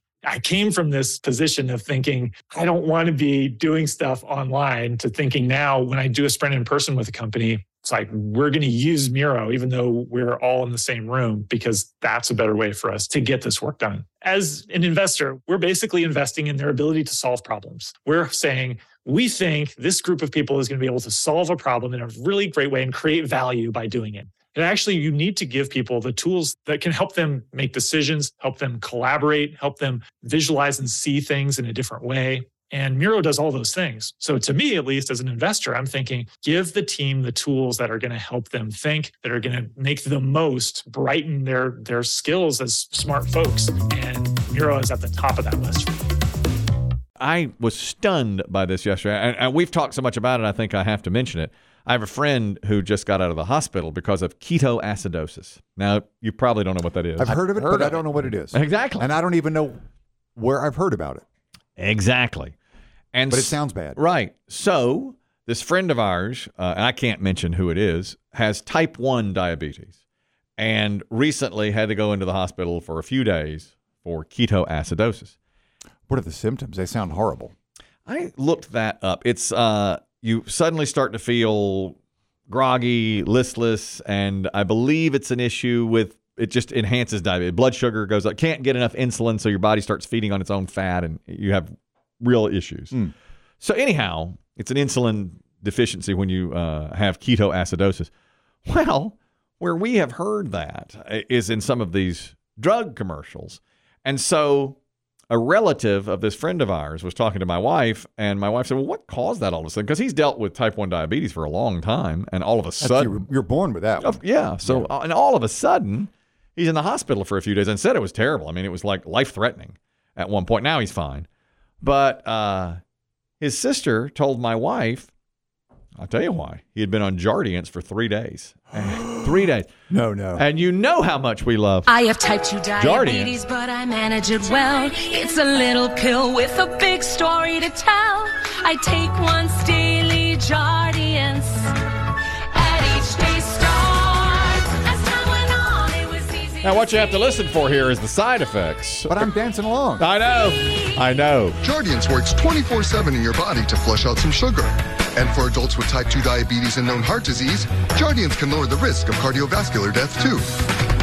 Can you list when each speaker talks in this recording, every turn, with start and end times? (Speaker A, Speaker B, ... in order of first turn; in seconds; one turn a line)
Speaker A: 0.2-45.9
Speaker B: 47.2-59.1
Speaker C: 57.2-59.8
Speaker C: 60.4-61.2
Speaker B: 61.8-62.5
Speaker B: 63.1-69.9
Speaker C: 63.3-64.0
Speaker B: 70.6-75.3
Speaker C: 76.1-77.5
Speaker B: 78.1-82.0
Speaker B: 82.5-93.0
Speaker B: 93.6-98.1
Speaker B: 98.7-104.8
Speaker B: 105.3-113.2
Speaker C: 112.8-114.9
Speaker B: 114.0-121.3
Speaker B: 121.8-122.8
Speaker B: 123.4-125.1
Speaker B: 126.0-129.7
Speaker C: 129.9-130.4
Speaker B: 130.3-132.0
Speaker D: 131.9-141.7
Speaker B: 132.8-133.4
Speaker D: 142.5-147.2
Speaker B: 146.6-149.3
Speaker C: 149.1-150.1
Speaker B: 150.0-151.6
Speaker E: 151.6-160.6